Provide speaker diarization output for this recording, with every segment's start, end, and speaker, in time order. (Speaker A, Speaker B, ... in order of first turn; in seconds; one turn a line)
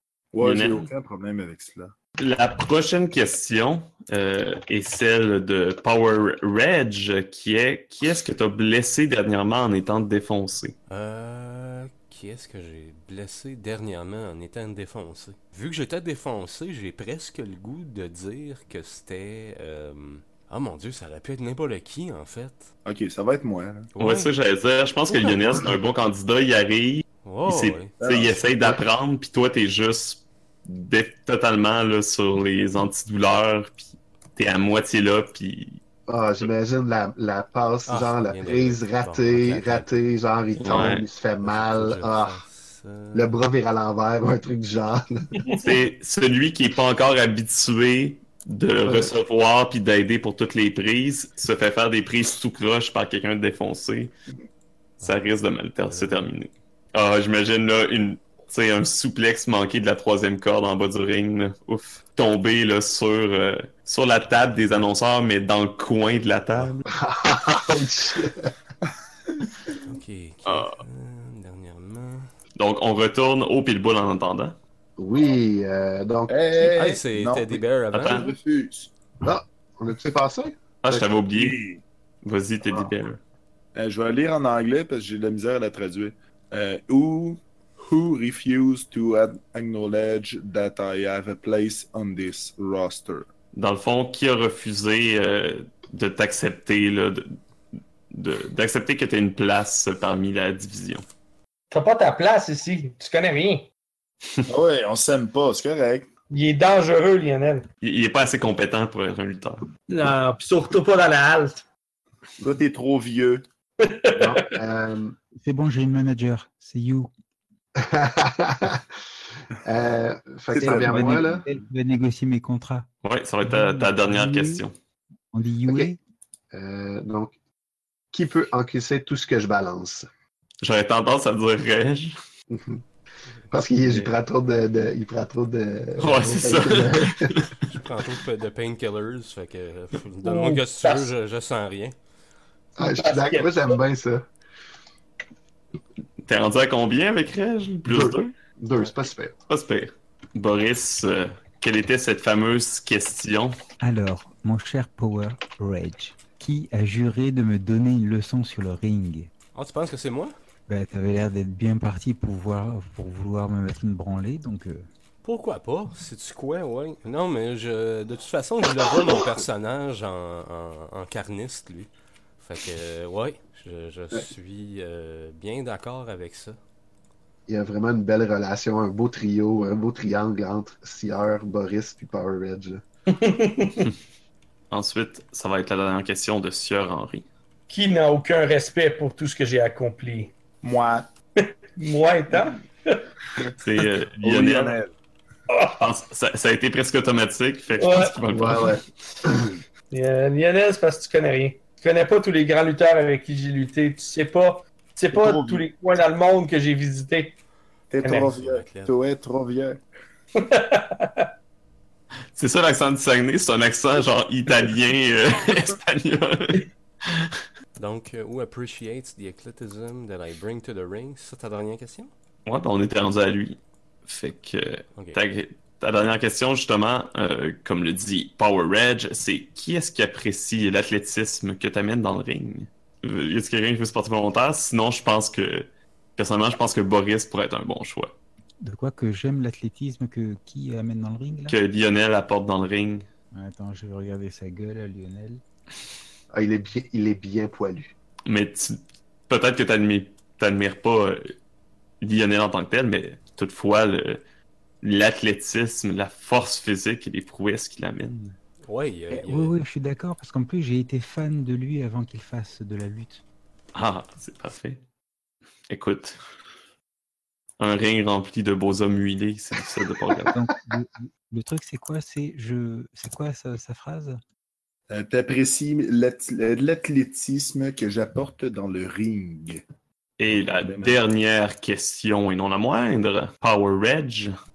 Speaker A: 0.3-1.9
Speaker B: 0.4-0.9
Speaker B: 2.2-10.7
Speaker C: 10.9-22.7
Speaker A: 22.8-23.9
Speaker C: 23.9-24.3
Speaker B: 24.0-35.8
Speaker C: 25.1-25.4
Speaker C: 27.2-28.0
Speaker A: 28.0-28.4
Speaker D: 36.1-42.4
Speaker C: 37.9-39.9
Speaker B: 40.6-41.0
Speaker C: 40.6-43.3
Speaker D: 43.1-45.5
Speaker B: 45.6-54.1
Speaker B: 55.0-66.8
Speaker C: 55.9-56.3
Speaker D: 66.9-68.5
Speaker C: 69.8-72.3
Speaker B: 70.5-70.8
Speaker B: 72.6-74.6
Speaker D: 75.0-76.7
Speaker A: 76.3-78.9
Speaker C: 76.7-78.4
Speaker B: 77.9-78.3
Speaker D: 79.2-81.0
Speaker B: 80.8-81.6
Speaker A: 81.3-81.8
Speaker B: 82.2-83.2
Speaker A: 83.7-93.3
Speaker B: 93.5-97.4
Speaker B: 98.1-101.0
Speaker E: 101.7-103.7
Speaker A: 104.5-106.1
Speaker E: 106.3-107.7
Speaker B: 107.8-109.6
Speaker E: 109.9-111.6
Speaker A: 112.4-113.4
Speaker E: 113.8-114.5
Speaker D: 114.2-115.2
Speaker F: 115.4-117.1
Speaker D: 117.8-118.8
Speaker D: 119.6-121.5
Speaker F: 120.5-122.9
Speaker A: 120.5-121.2
Speaker B: 123.0-124.7
Speaker F: 123.4-124.6
Speaker F: 125.3-126.0
Speaker D: 125.7-125.9
Speaker D: 126.5-127.3
Speaker D: 128.1-130.1
Speaker B: 130.6-132.2
Speaker D: 132.5-132.8
Speaker D: 133.5-137.3
Speaker B: 136.0-137.6
Speaker C: 137.7-141.9
Speaker E: 140.2-141.1
Speaker D: 142.8-144.3
Speaker E: 142.8-143.8
Speaker B: 146.2-148.3
Speaker D: 147.9-149.3
Speaker B: 149.5-153.5
Speaker F: 153.8-159.3
Speaker C: 159.5-160.3
Speaker F: 160.7-164.9
Speaker C: 165.2-176.6
Speaker D: 177.5-182.8
Speaker E: 183.1-183.9
Speaker B: 184.7-187.2
Speaker E: 187.7-190.3
Speaker A: 190.6-191.1
Speaker E: 191.4-193.1
Speaker B: 193.6-194.8
Speaker A: 194.2-194.9
Speaker E: 195.5-195.8
Speaker B: 195.8-198.8
Speaker E: 197.8-198.1
Speaker D: 198.3-199.5
Speaker E: 199.9-207.3
Speaker A: 205.1-205.7
Speaker A: 207.9-209.8
Speaker C: 208.1-208.9
Speaker E: 210.3-211.3
Speaker B: 212.3-217.4
Speaker C: 217.8-222.1
Speaker B: 222.4-238.2
Speaker F: 238.6-241.6
Speaker B: 241.5-243.1
Speaker F: 243.3-245.4
Speaker D: 246.3-247.9
Speaker B: 248.3-251.3
Speaker B: 252.0-254.2
Speaker B: 254.8-258.4
Speaker C: 258.7-259.5
Speaker F: 259.1-263.2
Speaker B: 263.7-264.8
Speaker B: 265.7-266.2
Speaker B: 267.6-270.3
Speaker F: 270.3-274.2
Speaker A: 274.9-279.6
Speaker B: 280.2-284.3
Speaker A: 280.6-281.0